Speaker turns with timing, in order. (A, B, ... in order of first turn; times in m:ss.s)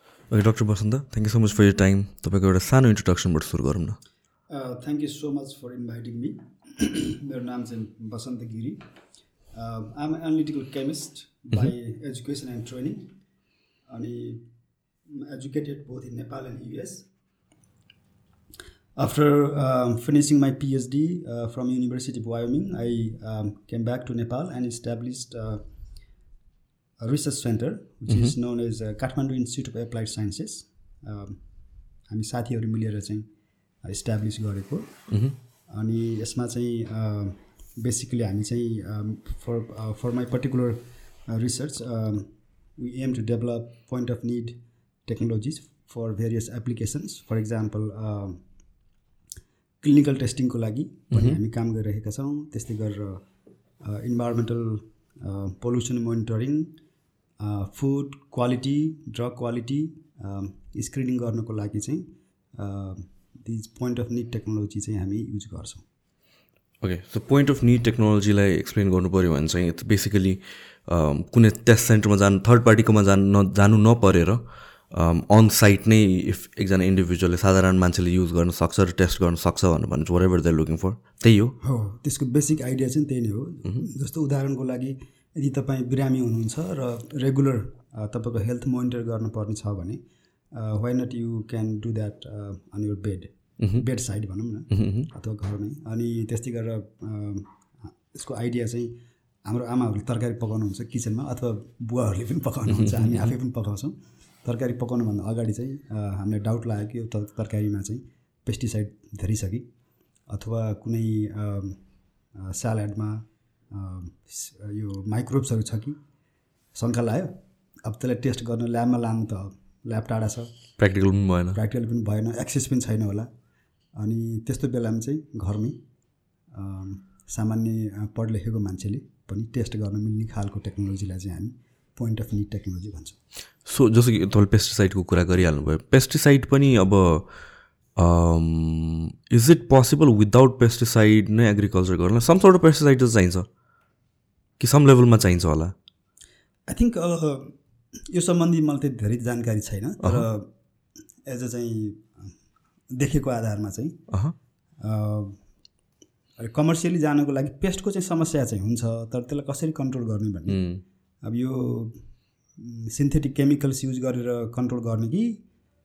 0:00.3-0:04.0 A
0:04.5-0:08.8 B
0:09.5-0:13.1 B
0:13.9-0:14.4 B
0:15.1-0:17.1 B
0:19.0-0:25.6 B
0:27.0-0:31.4 B
0:32.1-0:33.2 B
0:33.8-0:35.0 B
0:35.1-0:35.4 A
0:35.7-0:48.4 B
0:49.8-0:53.2 B
0:51.1-0:51.4 A
0:53.8-0:56.7 B
0:57.4-1:05.8 B
1:06.8-1:21.6 A
1:21.6-1:30.0 B
1:30.5-1:37.5 B
1:33.6-1:33.8 A
1:34.7-1:35.1 A
1:38.1-1:38.9 B
1:39.4-1:49.7 B
1:42.7-1:43.2 A
1:50.3-1:51.8 B
1:52.3-1:56.0 B
1:56.7-1:57.3 B
1:57.8-2:00.5 B
2:00.8-2:01.6 A
2:01.5-2:03.3 B
2:03.9-2:05.8 B
2:06.5-2:13.2 B
2:13.6-2:17.3 A
2:18.0-2:23.5 A
2:24.6-2:25.7 A
2:26.7-2:27.5 B
2:28.1-2:30.5 B
2:31.2-2:32.3 B
2:32.9-2:34.0 B
2:34.8-2:35.4 B
2:36.4-2:40.6 B
2:40.5-2:40.8 A
2:41.2-2:42.0 B
2:42.6-2:45.4 B